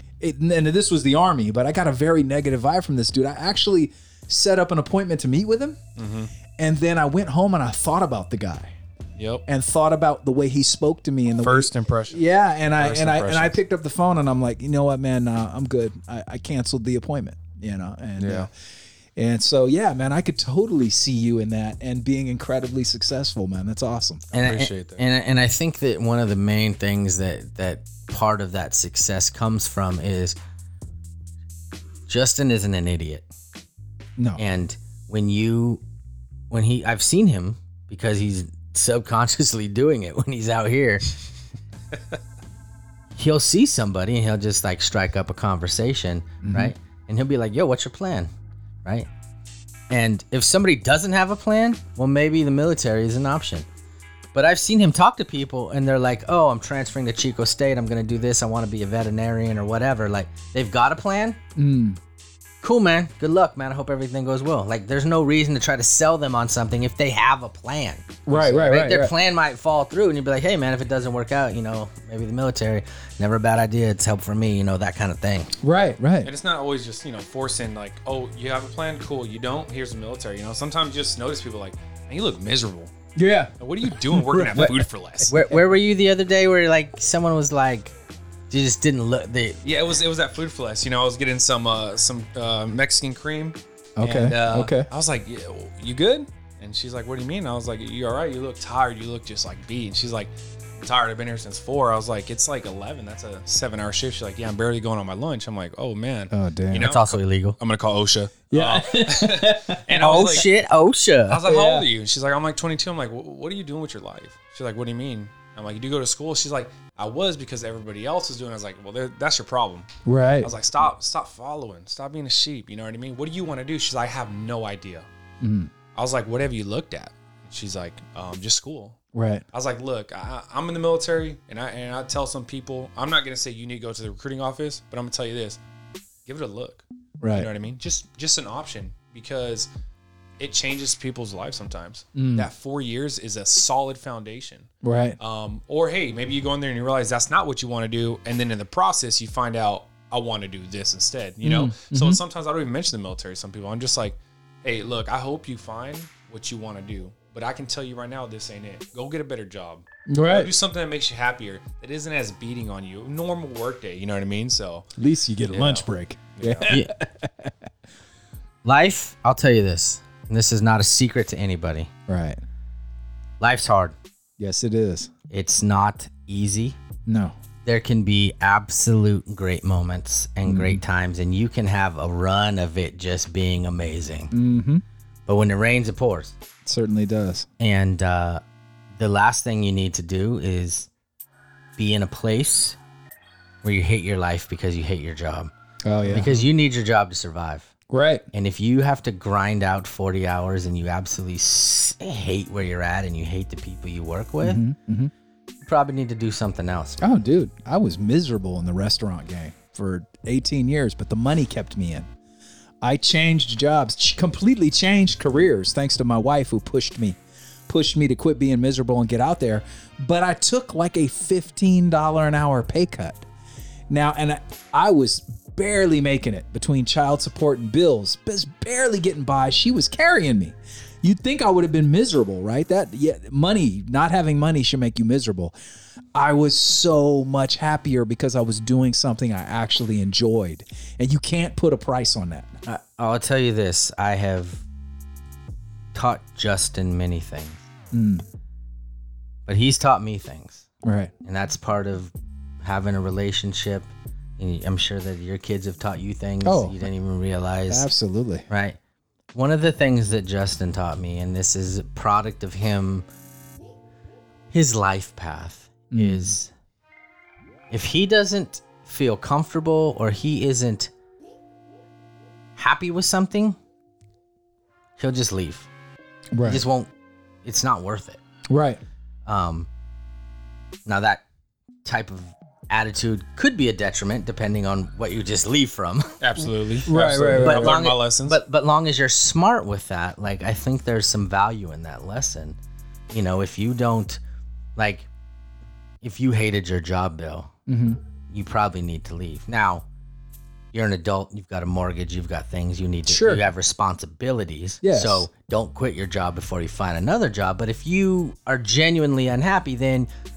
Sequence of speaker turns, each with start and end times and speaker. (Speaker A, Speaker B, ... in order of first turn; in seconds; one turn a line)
Speaker A: 0.2-5.8
Speaker B: 6.0-6.3
Speaker A: 6.6-8.7
Speaker B: 9.2-9.4
Speaker A: 9.5-18.5
Speaker B: 11.4-12.2
Speaker B: 12.8-13.6
Speaker B: 18.2-18.5
Speaker A: 19.1-24.2
Speaker C: 24.3-30.4
Speaker B: 24.3-25.0
Speaker C: 32.1-33.3
Speaker C: 34.4-35.8
Speaker C: 36.5-41.1
Speaker C: 43.1-48.3
Speaker A: 46.4-46.7
Speaker C: 49.9-53.6
Speaker C: 54.3-61.4
Speaker A: 61.5-62.0
Speaker C: 62.6-75.5
Speaker A: 68.2-69.1
Speaker A: 75.6-76.3
Speaker B: 76.2-82.9
Speaker A: 83.2-83.5
Speaker B: 83.6-85.3
Speaker A: 84.0-85.6
Speaker C: 85.3-87.9
Speaker C: 88.5-89.6
Speaker B: 89.6-110.5
Speaker A: 94.0-94.9
Speaker A: 106.3-106.9
Speaker C: 106.8-107.6
Speaker A: 108.5-110.2
Speaker C: 110.0-111.4
Speaker B: 111.3-119.9
Speaker A: 111.5-111.9
Speaker A: 120.0-120.5
Speaker B: 120.4-125.1
Speaker A: 125.4-125.7
Speaker B: 125.9-129.0
Speaker A: 129.1-129.4
Speaker B: 129.5-135.6
Speaker B: 136.2-139.7
Speaker A: 137.2-137.5
Speaker B: 140.4-164.9
Speaker A: 142.2-142.5
Speaker A: 144.8-145.2
Speaker A: 151.4-152.2
Speaker A: 160.1-160.5
Speaker A: 165.0-167.5
Speaker B: 165.5-165.8
Speaker B: 166.4-166.8
Speaker C: 168.6-171.9
Speaker A: 172.1-172.4
Speaker C: 173.4-173.9
Speaker A: 174.4-175.1
Speaker C: 175.3-176.8
Speaker A: 177.1-177.3
Speaker C: 177.6-184.3
Speaker A: 180.4-180.8
Speaker A: 184.3-184.8
Speaker C: 185.3-186.3
Speaker A: 186.6-187.5
Speaker C: 187.6-188.4
Speaker C: 188.9-190.9
Speaker C: 191.8-192.8
Speaker C: 193.6-195.5
Speaker A: 195.8-196.4
Speaker C: 196.1-197.7
Speaker A: 197.9-198.3
Speaker C: 198.3-204.6
Speaker A: 204.4-205.1
Speaker C: 205.6-207.2
Speaker A: 207.0-212.1
Speaker A: 212.8-223.3
Speaker A: 223.9-235.5
Speaker A: 236.1-242.6
Speaker C: 242.6-244.6
Speaker C: 245.9-247.6
Speaker A: 247.9-248.2
Speaker C: 249.5-250.6
Speaker A: 250.8-251.1
Speaker C: 251.2-257.9
Speaker A: 256.4-256.8
Speaker A: 257.7-258.5
Speaker C: 258.5-258.8
Speaker C: 259.3-263.1
Speaker C: 264.5-266.5
Speaker A: 265.9-266.4
Speaker C: 267.7-270.9
Speaker C: 272.6-273.6
Speaker C: 275.0-275.7
Speaker A: 276.3-276.6
Speaker C: 276.4-276.9
Speaker C: 277.4-278.2
Speaker A: 278.5-278.8
Speaker C: 279.2-279.7
Speaker C: 280.9-281.2
Speaker C: 281.8-286.2
Speaker B: 286.2-288.4
Speaker A: 286.9-287.8
Speaker C: 287.3-292.6
Speaker C: 293.1-294.2
Speaker C: 294.8-295.1
Speaker C: 296.0-297.5
Speaker A: 297.7-298.0
Speaker C: 298.3-299.8
Speaker C: 300.7-310.1
Speaker A: 303.1-303.4
Speaker A: 304.8-305.2